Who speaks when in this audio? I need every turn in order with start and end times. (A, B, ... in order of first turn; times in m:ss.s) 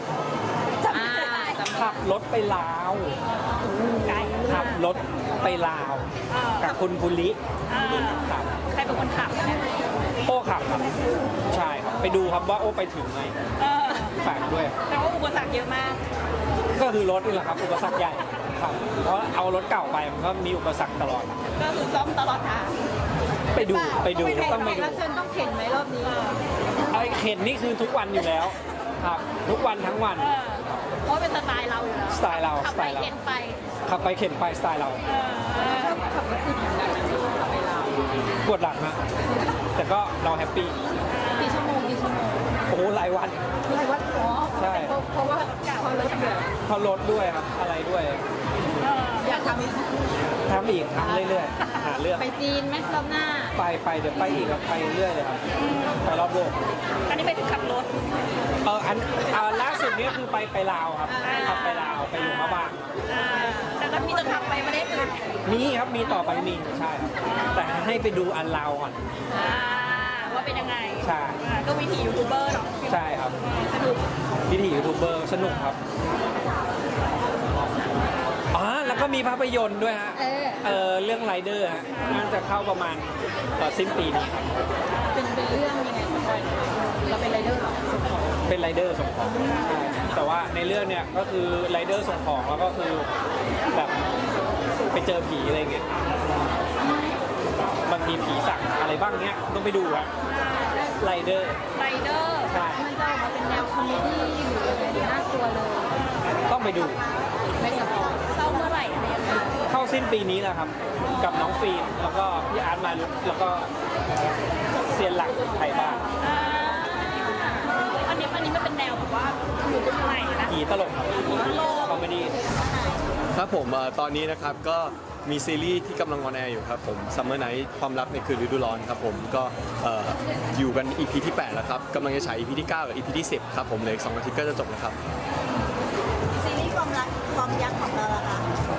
0:00.8-0:01.6 A
0:00.9-0:02.0 B
0:01.7-0:03.2 C
0:03.6-0:04.5 B
0:04.0-0:04.8 A
0:04.4-0:06.1 C
0:06.3-0:06.8 A
0:06.6-0:08.6 C
0:07.7-0:09.8 A
0:10.2-0:10.9 C
0:11.5-0:13.4 C
0:13.6-0:14.2 A
0:14.2-0:14.8 C
0:14.9-0:16.0 A
0:16.7-0:21.4 C
0:21.6-0:22.7 A
0:23.5-0:25.0 C
0:23.5-0:26.3 B
0:24.1-0:24.8 A
0:26.0-0:26.4 A
0:26.9-0:30.3 C
0:30.2-0:33.6 A
0:32.1-0:33.1 C
0:33.8-0:35.0 C
0:35.1-0:36.0 A
0:35.6-0:38.3 B
0:38.4-0:39.0 C
0:39.7-0:40.8 C
0:41.1-0:41.7 A
0:41.3-0:42.5 B
0:42.7-0:43.4 C
0:43.6-0:46.5 B
0:44.6-0:44.9 C
0:45.2-0:46.5 A
0:46.6-0:48.2 C
0:48.8-0:49.6 A
0:49.2-0:50.0 B
0:50.5-0:52.3 C
0:51.0-0:51.4 B
0:52.2-0:53.5 B
0:53.5-0:55.4 C
0:55.5-0:56.0 A
0:56.0-0:56.6 C
0:57.1-0:57.9 A
0:58.6-1:02.8 C
0:59.6-1:00.0 A
1:01.0-1:01.7 B
1:01.2-1:05.2 A
1:05.4-1:09.0 C
1:07.2-1:07.9 A
1:09.3-1:14.0 A
1:11.0-1:11.4 C
1:12.9-1:13.4 C
1:14.5-1:15.8 C
1:15.4-1:15.7 A
1:18.5-1:24.6 C
1:18.8-1:19.2 A
1:20.1-1:20.7 B
1:24.9-1:25.2 A
1:25.1-1:28.4 B
1:28.4-1:33.1 C
1:29.4-1:29.7 A
1:33.7-1:34.0 C
1:34.9-1:36.3 C
1:37.8-1:40.1 C
1:40.3-1:40.9 A
1:41.0-1:41.6 C
1:41.8-1:42.5 A
1:42.5-1:42.8 C
1:42.6-1:46.0 B
1:46.0-1:46.3 A
1:46.4-1:47.0 C
1:46.8-1:47.5 D
1:47.6-1:48.2 B
1:48.1-1:49.4 A
1:49.7-1:53.7 C
1:54.7-1:56.1 C
1:56.2-2:00.6 A
2:00.5-2:02.3 C
2:01.2-2:02.0 A
2:02.4-2:03.1 D
2:03.3-2:15.0 E
2:16.4-2:18.4 D